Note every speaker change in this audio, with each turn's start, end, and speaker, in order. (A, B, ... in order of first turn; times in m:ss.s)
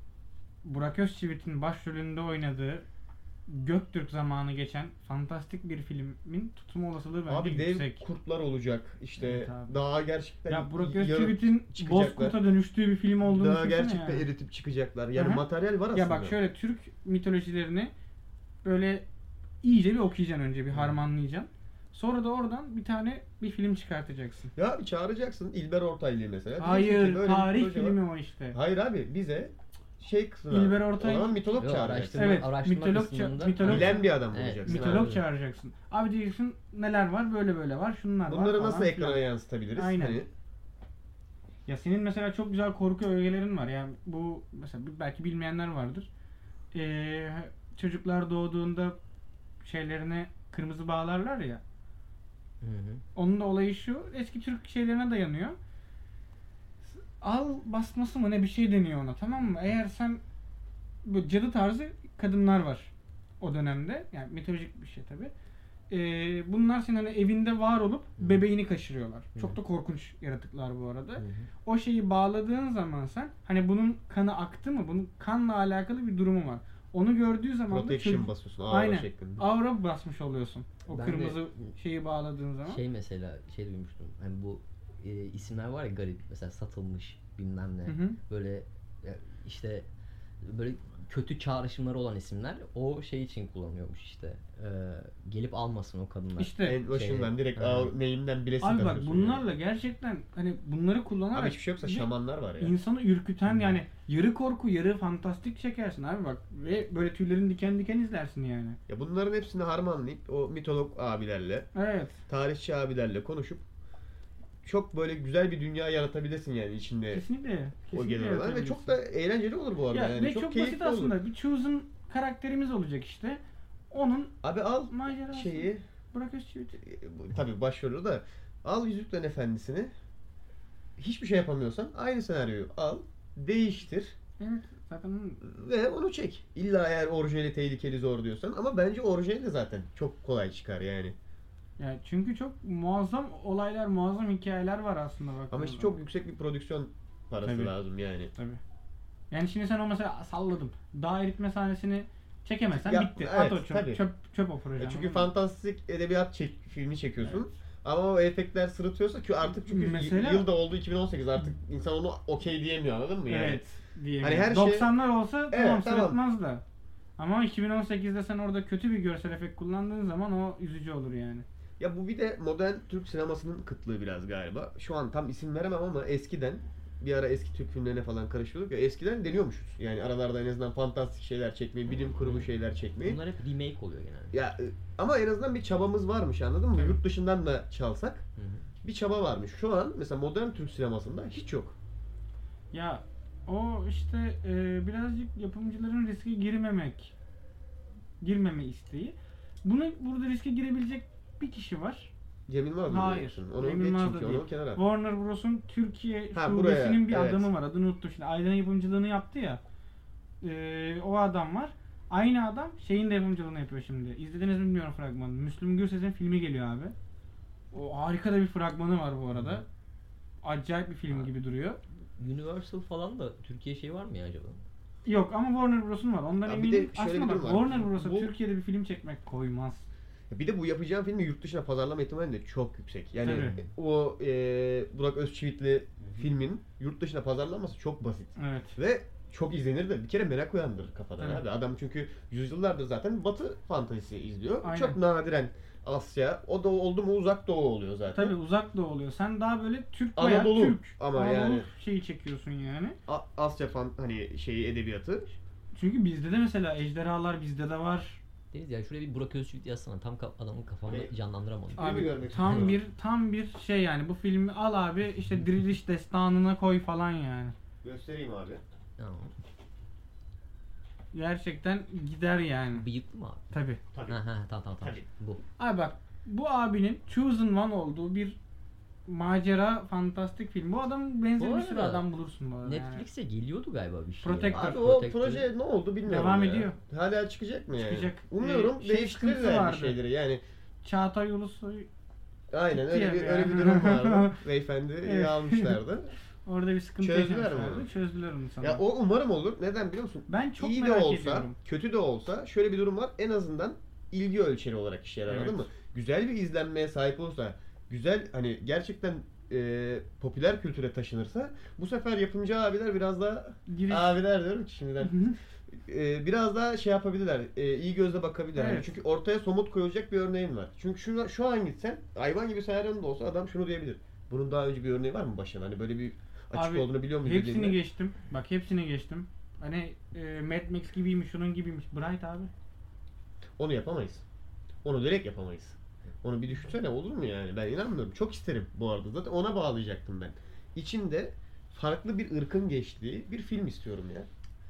0:00.6-0:02.8 A
0:03.5-0:08.0 A
0:07.3-0:12.4 B
0:09.2-0:09.7 A
0:10.5-0:14.3 A
0:13.2-0:16.4 B
0:15.2-0:17.9 A
0:18.6-0:19.1 A
0:19.6-0:24.5 A
0:24.6-0:28.0 B
0:26.6-0:28.6 A
0:28.5-0:32.3 B
0:30.5-0:31.4 A
0:31.6-0:35.2 C
0:32.1-0:39.2 A
0:33.6-0:35.1 B
0:38.3-0:40.3 B
0:39.8-0:40.2 A
0:41.7-0:46.1 A
0:46.7-0:49.0 A
0:49.6-0:51.6 A
0:52.6-0:53.0 C
0:53.2-0:55.6 A
0:56.9-1:00.2 A
1:01.0-1:05.3 A
1:05.9-1:22.8 A
1:11.2-1:11.5 C
1:17.7-1:19.4 B
1:20.9-1:21.7 C
1:22.7-1:29.9 C
1:27.9-1:28.2 A
1:30.4-1:37.9 C
1:36.4-1:36.8 A
1:36.6-1:39.4 B
1:38.6-1:48.8 A
1:41.3-1:42.8 B
1:43.5-1:43.8 C
1:48.9-1:51.7 B
1:51.8-1:52.2 A
1:52.3-1:53.6 B
1:54.6-1:57.2 B
1:57.1-1:58.9 A
1:57.9-2:01.1 B
1:59.9-2:04.4 A
2:04.4-2:05.8 B
2:04.9-2:06.8 A
2:06.8-2:09.9 B
2:11.0-2:14.2 B
2:14.4-2:15.4 A
2:15.4-2:21.2 B
2:21.8-2:26.0 A
2:25.5-2:28.3 B
2:27.4-2:27.7 A
2:28.3-2:28.6 A
2:29.3-2:35.3 A
2:32.7-2:34.0 B
2:34.8-2:43.6 B
2:39.6-2:40.5 A
2:43.3-2:46.6 A
2:44.2-2:44.9 B
2:45.5-2:46.2 B
2:47.2-2:51.5 A
2:51.8-3:03.2 B
3:02.2-3:02.5 C
3:03.0-3:04.4 C
3:04.3-3:08.2 B
3:08.4-3:08.6 C
3:08.8-3:11.8 B
3:12.7-3:17.1 A
3:18.2-3:22.1 A
3:22.5-3:24.8 B
3:22.9-3:29.6 A
3:26.3-3:27.5 B
3:30.4-3:36.9 A
3:37.7-3:39.6 A
3:40.4-3:41.8 A
3:42.2-3:44.6 C
3:45.1-3:49.9 A
3:46.4-3:48.3 B
3:50.3-4:08.4 B
3:53.2-3:53.6 A
3:53.4-3:53.7 C
3:58.4-3:58.8 A
4:04.6-4:05.0 A
4:08.1-4:13.0 A
4:10.2-4:11.7 B
4:13.1-4:15.4 B
4:15.7-4:18.2 A
4:18.5-4:22.8 C
4:21.8-4:22.8 B
4:21.8-4:27.6 A
4:27.8-4:28.6 B
4:29.0-4:29.3 C
4:31.1-4:32.9 A
4:32.8-4:33.4 C
4:33.5-4:33.8 A
4:33.9-4:34.2 B
4:34.1-4:35.4 C
4:35.6-4:38.4 A
4:39.1-4:43.0 A
4:41.4-4:42.1 C
4:42.6-4:45.5 C
4:44.2-4:44.8 A
4:44.5-4:50.4 B
4:46.1-4:46.8 A
4:47.8-4:50.0 A
4:50.8-4:51.9 A
4:52.5-4:56.1 B
4:52.7-4:54.4 A
4:55.0-4:55.8 A
4:56.4-4:58.8 A
4:57.0-4:57.9 B
4:58.6-5:27.8 B
5:00.3-5:01.6 A
5:05.3-5:05.7 A
5:13.7-5:14.2 A
5:15.0-5:15.4 A
5:18.6-5:18.9 A
5:26.5-5:32.5 A
5:33.6-5:34.2 B
5:34.8-5:44.3 B